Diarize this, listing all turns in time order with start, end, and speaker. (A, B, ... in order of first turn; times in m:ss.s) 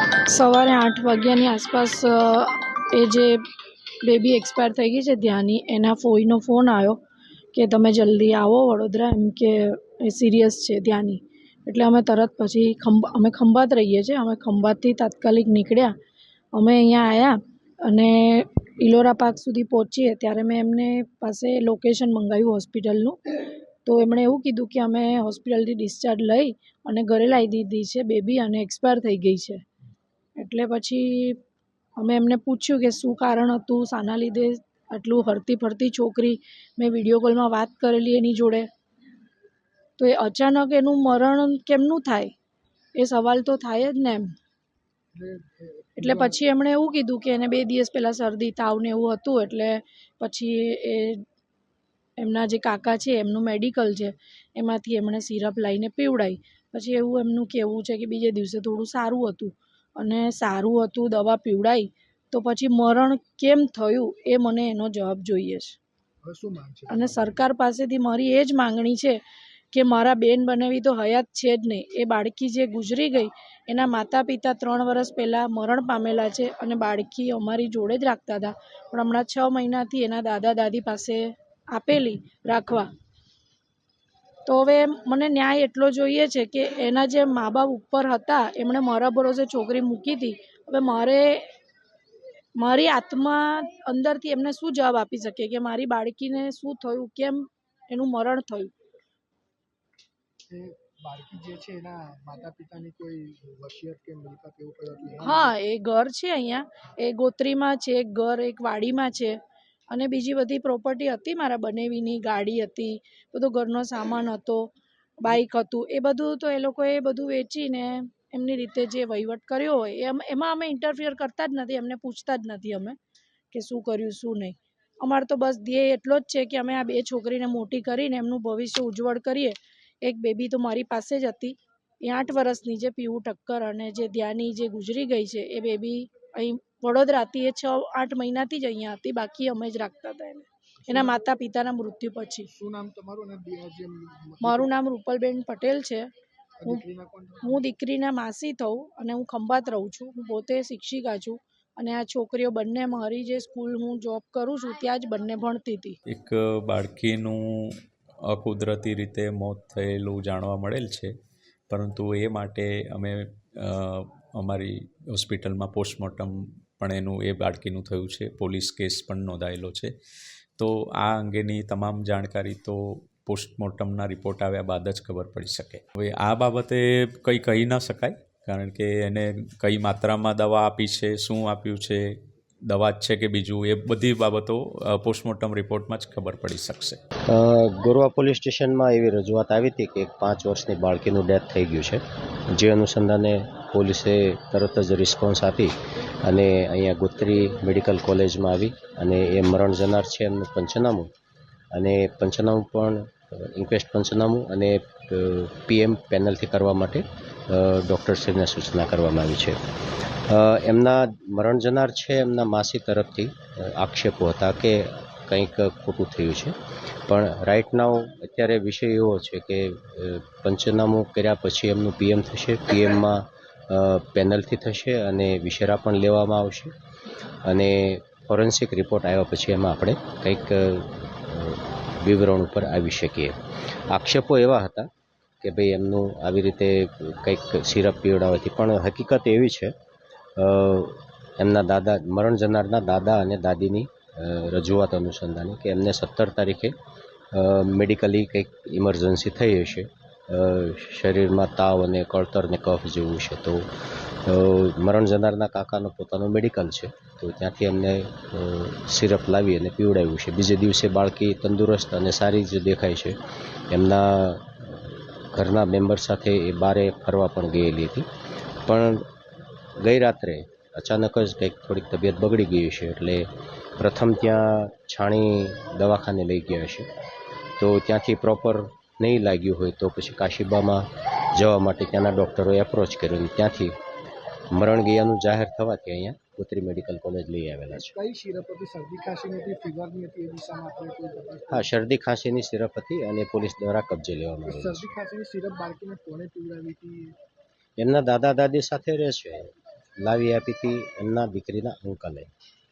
0:00.3-0:03.4 A
0:04.0-0:07.0 A
0:07.5-0:15.9 A
0:16.6-0:29.6 A
0:30.4-0:31.4 A
0:32.0-0:38.7 A
0:40.0-0:42.3 A
0:43.0-0:44.3 A
0:45.1-0:46.4 B
0:46.0-0:51.2 A
0:52.2-1:05.8 A
1:06.2-1:07.3 B
1:06.9-1:09.2 A
1:09.7-1:22.9 A
1:24.5-1:31.4 A
1:32.6-1:38.7 A
1:40.5-1:45.6 B
1:45.2-1:49.4 A
1:49.9-2:03.0 A
2:03.5-2:22.5 A
2:20.8-2:21.2 B
2:22.5-2:24.7 B
2:24.4-2:26.1 A
2:26.6-2:27.7 B
2:27.4-2:36.0 A
2:36.1-2:37.7 C
2:38.2-2:41.1 C
2:41.7-2:49.9 C
2:50.6-3:02.2 C
3:02.7-3:07.0 C
3:07.3-3:12.0 D
3:12.5-3:15.7 D
3:16.2-3:21.1 D
3:21.7-3:29.6 D
3:30.3-3:36.6 D
3:37.1-3:46.7 D
3:47.5-3:53.3 D
3:53.9-3:54.9 D
3:55.4-3:59.8 D
4:00.4-4:06.7 D
4:07.3-4:13.7 D
4:14.3-4:28.1 D
4:28.7-4:29.1 D
4:29.8-4:36.9 D
4:37.6-4:43.8 D
4:44.5-4:47.9 D
4:47.8-4:51.7 B
4:51.5-4:54.9 D
4:54.5-4:57.2 B
4:57.8-5:02.3 D